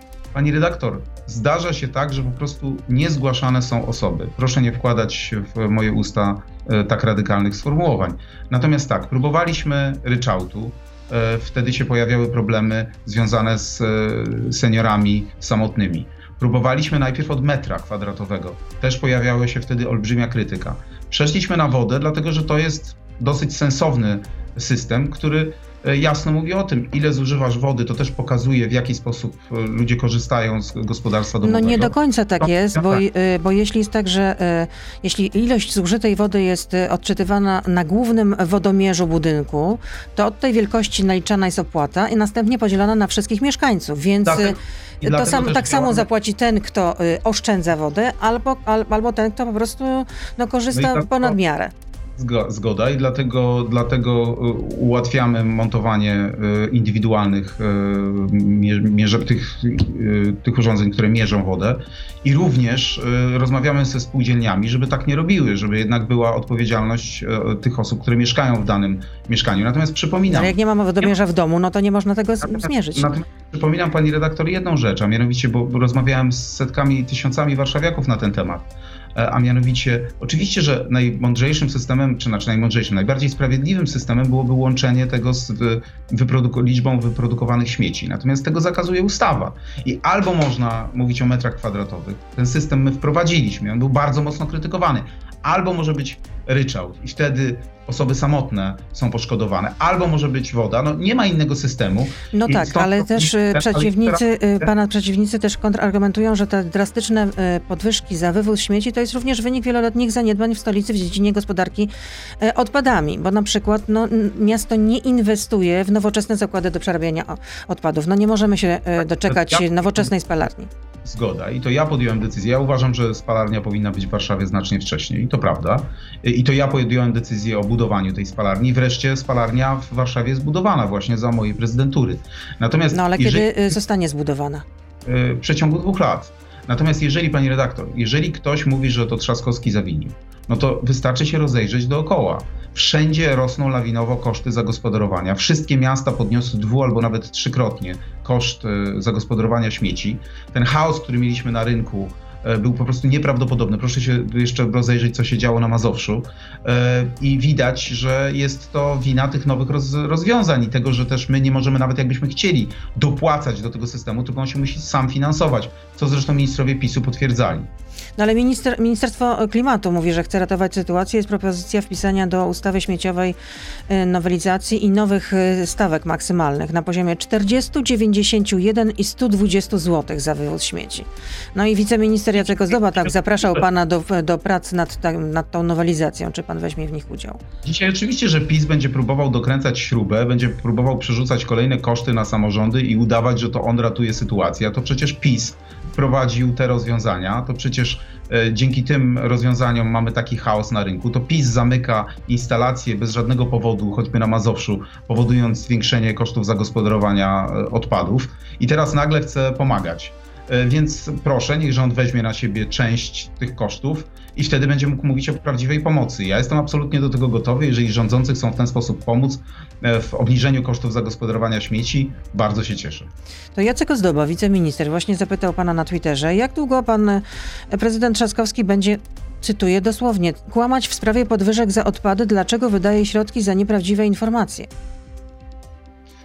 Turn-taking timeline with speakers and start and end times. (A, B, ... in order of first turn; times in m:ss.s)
0:00.3-0:33.0 A
0:31.4-0:51.7 B
0:44.2-0:46.0 A
0:50.7-0:51.4 A
0:52.2-1:10.5 A
1:10.3-1:13.1 B
1:12.4-1:44.7 A
1:42.3-2:00.7 B
1:59.3-2:00.1 A
2:01.0-2:13.7 A
2:12.9-2:14.6 B
2:15.0-2:47.7 A
2:48.2-2:53.4 B
2:53.9-3:07.4 B
3:02.3-3:03.6 A
3:07.6-3:43.1 A
3:43.5-3:54.7 B